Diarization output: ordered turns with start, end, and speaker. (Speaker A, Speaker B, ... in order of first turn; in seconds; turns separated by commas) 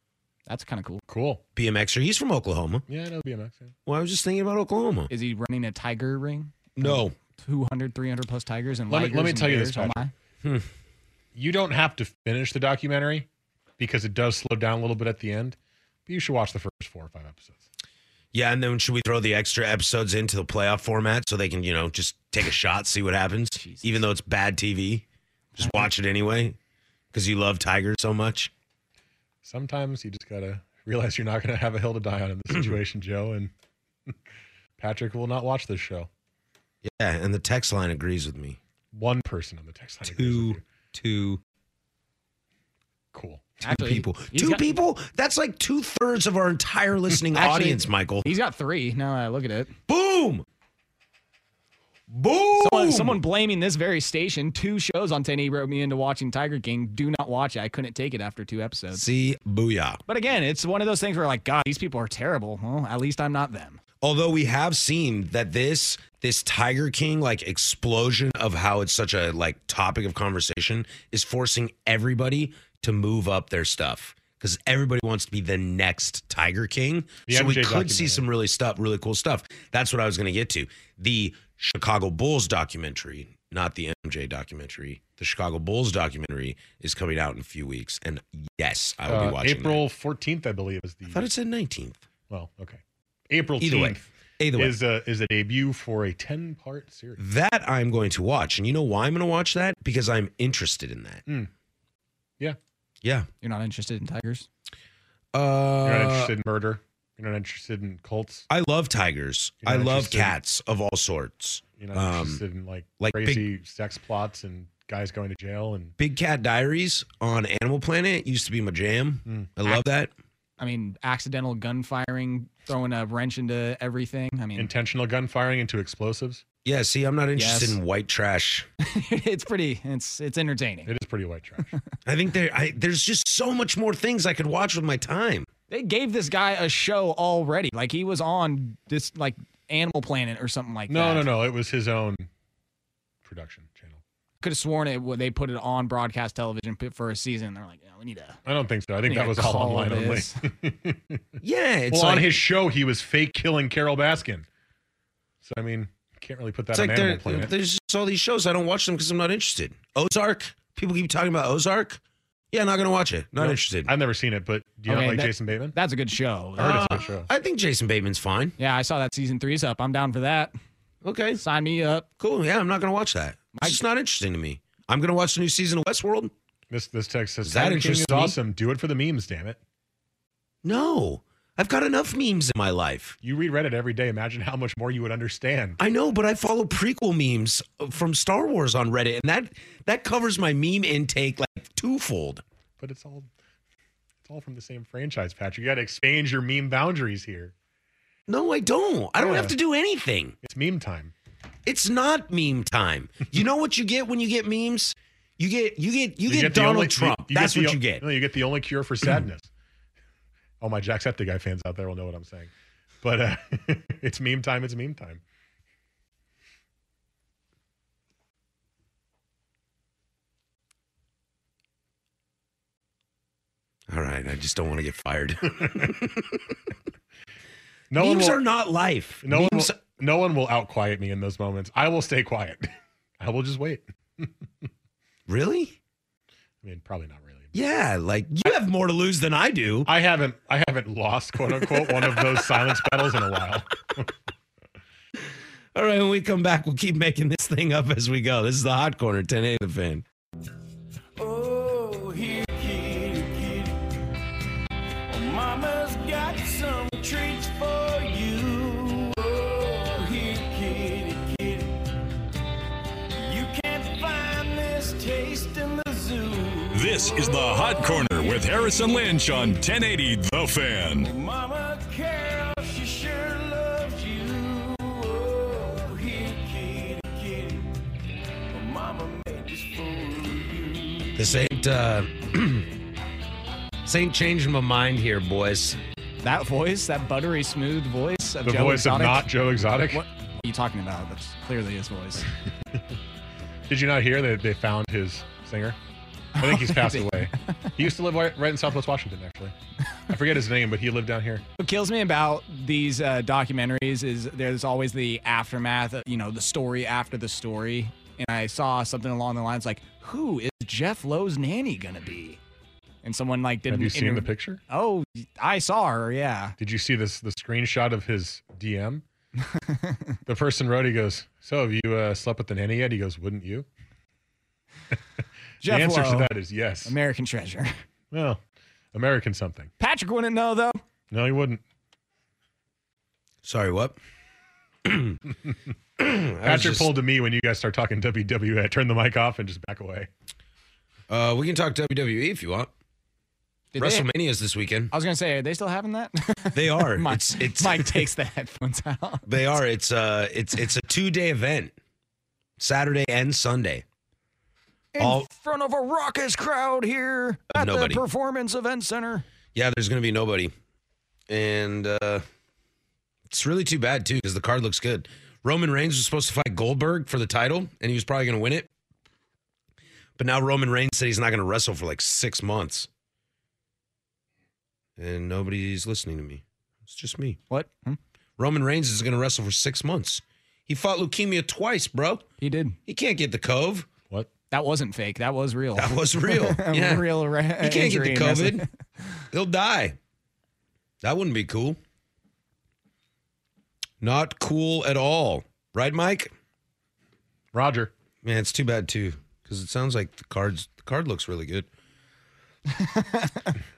Speaker A: 0.5-1.0, Speaker B: 1.1-1.4, Speaker C: 1.6-2.8, Speaker B: 2.9-3.7, Speaker C: 3.9-5.1, Speaker A: 5.1-10.1, Speaker C: 6.8-7.1, Speaker B: 8.9-10.0, Speaker C: 10.4-10.7, Speaker B: 11.3-13.3, Speaker B: 13.8-17.6, Speaker C: 18.3-25.0, Speaker A: 23.6-24.0, Speaker C: 25.6-26.6, Speaker A: 25.6-25.9, Speaker C: 27.1-28.5, Speaker B: 29.4-33.5, Speaker B: 34.8-36.1, Speaker C: 36.8-38.6, Speaker B: 38.9-40.6, Speaker C: 40.0-41.4, Speaker B: 43.1-43.5, Speaker A: 43.6-44.7, Speaker C: 43.6-48.3, Speaker A: 47.3-49.7, Speaker C: 49.9-50.4, Speaker C: 52.1-53.2, Speaker A: 52.6-59.0, Speaker C: 58.9-60.0, Speaker A: 60.1-63.8, Speaker C: 64.0-89.8, Speaker B: 77.3-78.2, Speaker B: 89.1-91.3, Speaker C: 91.1-92.0, Speaker B: 92.3-97.2, Speaker C: 93.6-94.8, Speaker C: 97.2-101.2, Speaker C: 103.0-103.3, Speaker A: 103.4-104.5, Speaker C: 105.3-106.3, Speaker B: 105.8-108.5, Speaker C: 108.5-112.4, Speaker B: 109.6-110.3, Speaker B: 111.8-115.9, Speaker C: 113.0-113.5, Speaker C: 116.0-120.1, Speaker A: 120.6-124.7, Speaker B: 124.5-126.4, Speaker C: 126.6-128.7, Speaker A: 127.3-127.8, Speaker A: 128.8-130.9, Speaker B: 130.8-131.7, Speaker C: 132.1-135.5, Speaker A: 135.7-141.3, Speaker B: 140.9-142.3, Speaker B: 143.2-144.0, Speaker A: 144.4-148.4, Speaker B: 148.4-151.2, Speaker A: 149.1-150.3, Speaker C: 151.4-152.4, Speaker B: 151.9-154.4, Speaker B: 155.4-157.5, Speaker C: 156.7-162.0, Speaker C: 162.5-163.9, Speaker B: 163.4-165.8, Speaker A: 164.9-167.0, Speaker B: 166.6-167.3, Speaker C: 166.6-168.5, Speaker A: 168.6-170.5, Speaker C: 171.0-171.4, Speaker A: 171.4-172.1, Speaker C: 172.2-176.3, Speaker B: 176.7-179.6, Speaker C: 177.4-178.4, Speaker C: 180.6-183.2, Speaker B: 183.2-185.8, Speaker C: 185.8-192.4, Speaker B: 192.8-193.3, Speaker B: 194.2-197.5, Speaker C: 198.3-200.3, Speaker B: 199.2-199.5, Speaker B: 200.4-201.1, Speaker C: 201.7-208.0, Speaker B: 206.2-209.5, Speaker B: 210.6-212.5, Speaker B: 213.0-215.2, Speaker C: 223.9-226.4, Speaker B: 227.9-228.4, Speaker C: 227.9-229.7, Speaker B: 229.2-234.3, Speaker C: 235.3-235.8, Speaker B: 236.6-237.5, Speaker C: 237.5-239.9, Speaker B: 239.8-244.1, Speaker C: 241.8-242.3, Speaker C: 245.7-250.0, Speaker D: 251.2-253.8, Speaker D: 255.1-261.8, Speaker D: 263.2-268.7, Speaker E: 266.7-271.1, Speaker D: 271.0-277.7, Speaker D: 278.5-281.2, Speaker C: 281.1-282.7, Speaker C: 283.8-285.8, Speaker A: 286.2-292.3, Speaker B: 288.4-290.0, Speaker B: 293.7-295.8, Speaker A: 296.4-297.3, Speaker B: 296.4-299.5, Speaker B: 300.1-301.4, Speaker A: 301.6-312.4, Speaker A: 313.0-316.5, Speaker B: 313.7-314.6, Speaker B: 316.6-319.0, Speaker A: 319.6-320.0, Speaker B: 320.3-323.7, Speaker A: 325.6-327.7, Speaker B: 325.6-326.9, Speaker B: 328.1-328.4, Speaker B: 328.9-329.7, Speaker A: 329.8-330.8, Speaker B: 331.1-331.6, Speaker C: 333.4-334.0, Speaker C: 334.8-335.2, Speaker C: 336.0-336.9, Speaker B: 336.4-340.1, Speaker C: 341.1-342.7, Speaker A: 343.7-344.1, Speaker C: 343.8-344.9, Speaker A: 344.9-349.3, Speaker C: 346.5-348.1, Speaker C: 349.3-351.7, Speaker C: 352.6-353.8, Speaker A: 354.9-359.2, Speaker C: 355.0-355.2, Speaker C: 357.6-358.0, Speaker C: 359.5-360.5, Speaker C: 361.3-362.2, Speaker C: 363.3-368.7, Speaker C: 370.2-372.9, Speaker C: 375.0-377.4, Speaker A: 377.5-378.0, Speaker C: 378.4-382.2, Speaker A: 382.4-382.8, Speaker C: 382.9-383.9, Speaker A: 384.5-388.7, Speaker C: 385.8-387.1, Speaker C: 387.6-388.6, Speaker C: 389.3-390.0, Speaker C: 391.0-391.8, Speaker C: 394.0-396.3, Speaker B: 397.5-397.9, Speaker C: 398.2-401.7, Speaker A: 402.8-403.5